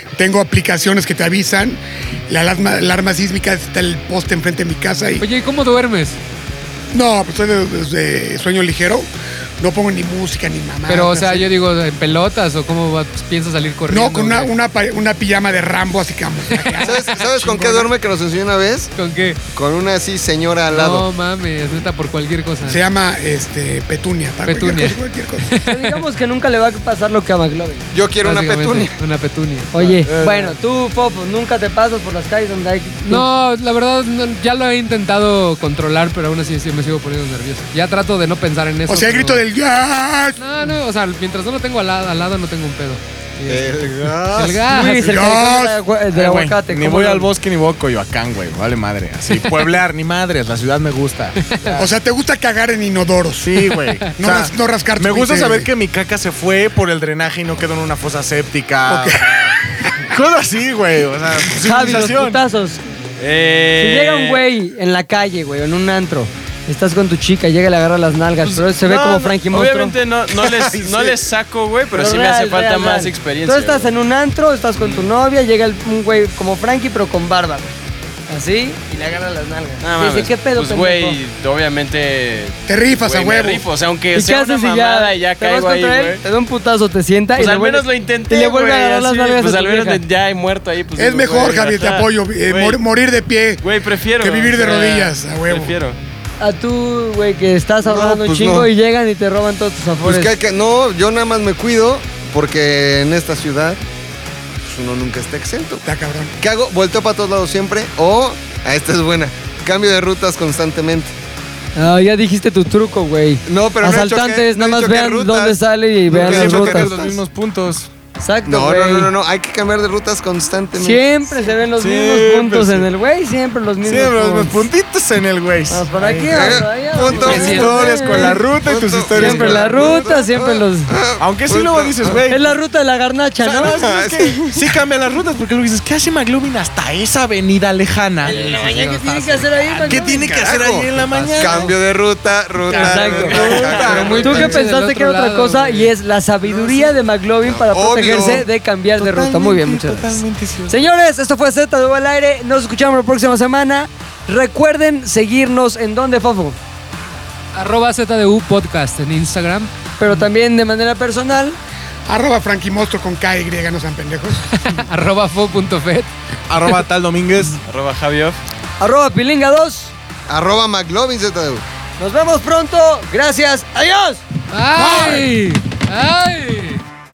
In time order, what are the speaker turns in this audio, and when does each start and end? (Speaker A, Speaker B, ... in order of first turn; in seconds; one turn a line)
Speaker A: 0.1-5.2
Speaker B: 5.2-6.2
Speaker A: 6.9-9.1
Speaker A: 9.6-11.5
Speaker B: 10.9-14.5
Speaker A: 13.9-17.9
Speaker B: 16.6-16.9
Speaker C: 16.8-18.9
Speaker B: 18.9-19.4
Speaker C: 19.6-21.1
Speaker B: 20.7-22.8
Speaker A: 22.6-25.5
Speaker B: 24.4-26.0
Speaker D: 25.6-27.9
Speaker C: 27.9-29.0
Speaker B: 28.2-30.0
Speaker D: 29.7-33.3
Speaker E: 30.1-30.5
Speaker B: 33.1-39.4
Speaker A: 38.9-40.4
Speaker B: 40.4-43.7
Speaker C: 43.4-44.7
Speaker B: 44.2-45.2
Speaker D: 44.6-47.3
Speaker A: 45.0-45.8
Speaker E: 46.1-51.9
Speaker A: 51.8-53.6
Speaker E: 53.4-62.4
Speaker A: 54.2-55.7
Speaker A: 58.9-59.5
Speaker D: 61.6-62.8
Speaker F: 63.2-64.4
Speaker D: 63.8-70.0
Speaker F: 68.4-73.9
Speaker E: 70.5-71.1
Speaker D: 71.9-77.7
Speaker D: 78.3-81.2
Speaker F: 79.8-86.2
Speaker A: 82.7-83.6
Speaker D: 84.1-90.0
Speaker F: 87.4-92.8
Speaker A: 91.0-93.6
Speaker F: 93.6-96.0
Speaker A: 94.2-95.8
Speaker D: 96.4-100.3
Speaker C: 97.8-98.7
Speaker C: 100.0-103.8
Speaker C: 104.6-105.8
Speaker A: 105.8-106.3
Speaker C: 106.4-111.1
Speaker D: 111.8-117.1
Speaker C: 113.5-115.6
Speaker E: 116.1-117.9
Speaker C: 116.1-117.2
Speaker D: 118.2-119.1
Speaker C: 118.5-121.0
Speaker D: 120.7-124.7
Speaker E: 121.8-122.9
Speaker E: 123.8-126.5
Speaker D: 125.7-128.4
Speaker C: 126.3-132.2
Speaker E: 127.1-130.0
Speaker D: 129.1-130.9
Speaker E: 131.2-132.6
Speaker D: 132.3-133.7
Speaker E: 133.4-138.4
Speaker C: 133.6-134.6
Speaker D: 138.2-140.4
Speaker C: 138.3-138.7
Speaker B: 138.6-139.4
Speaker E: 139.8-141.7
Speaker C: 140.2-144.6
Speaker E: 142.7-144.5
Speaker D: 142.7-143.4
Speaker B: 143.4-145.9
Speaker F: 143.5-144.2
Speaker D: 144.2-156.6
Speaker E: 146.4-147.0
Speaker C: 147.4-148.5
Speaker E: 149.0-150.8
Speaker B: 157.5-159.7
Speaker D: 160.0-161.6
Speaker A: 162.1-164.4
Speaker B: 164.5-166.1
Speaker E: 166.5-167.6
Speaker F: 167.7-168.4
Speaker D: 168.8-169.9
Speaker C: 170.3-171.6
Speaker D: 172.0-174.2
Speaker B: 174.5-176.8
Speaker A: 174.8-175.3